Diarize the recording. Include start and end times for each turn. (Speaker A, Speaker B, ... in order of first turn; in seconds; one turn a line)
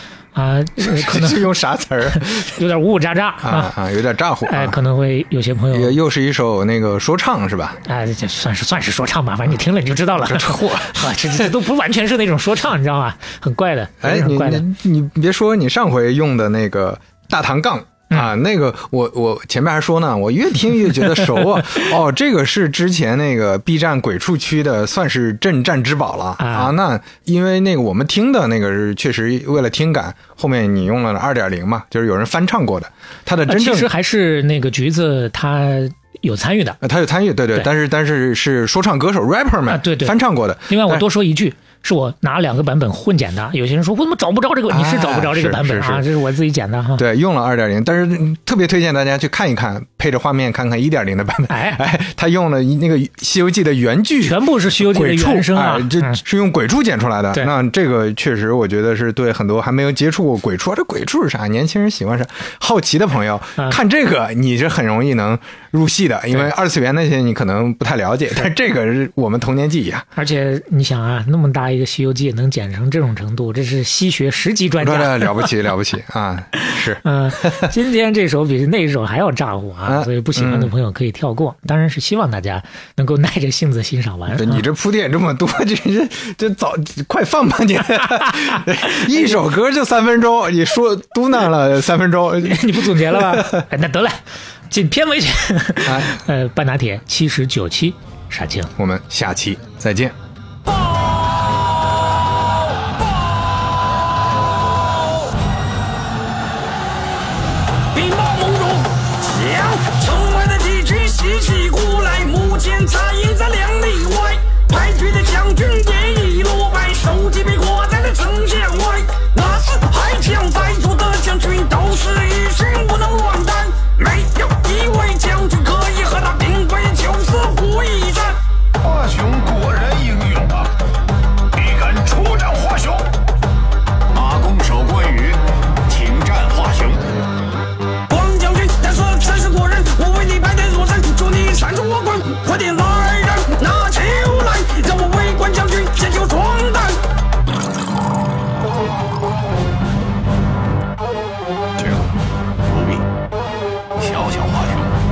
Speaker A: 0.3-1.4
Speaker B: 0.8-2.5
Speaker A: 2.1-3.8
Speaker B: 3.4-4.8
Speaker A: 4.5-6.0
Speaker B: 5.7-7.8
Speaker A: 7.8-14.7
Speaker B: 10.3-11.4
Speaker B: 14.0-33.9
Speaker A: 26.4-26.7
Speaker A: 33.5-36.8
Speaker B: 36.8-41.0
Speaker A: 39.7-47.0
Speaker B: 44.7-46.1
Speaker B: 47.0-70.1
Speaker A: 51.5-51.8
Speaker A: 54.2-56.2
Speaker A: 70.2-75.5
Speaker B: 74.8-77.7
Speaker A: 76.6-84.6
Speaker B: 79.9-80.7
Speaker B: 84.3-93.7
Speaker A: 92.4-98.7
Speaker B: 95.8-96.1
Speaker B: 98.8-100.2
Speaker C: 107.9-128.4
Speaker D: 128.8-130.7
Speaker D: 131.5-133.1
Speaker D: 134.1-137.0
Speaker C: 138.1-147.0
Speaker D: 151.8-152.1
Speaker D: 152.6-153.0
Speaker D: 153.9-154.9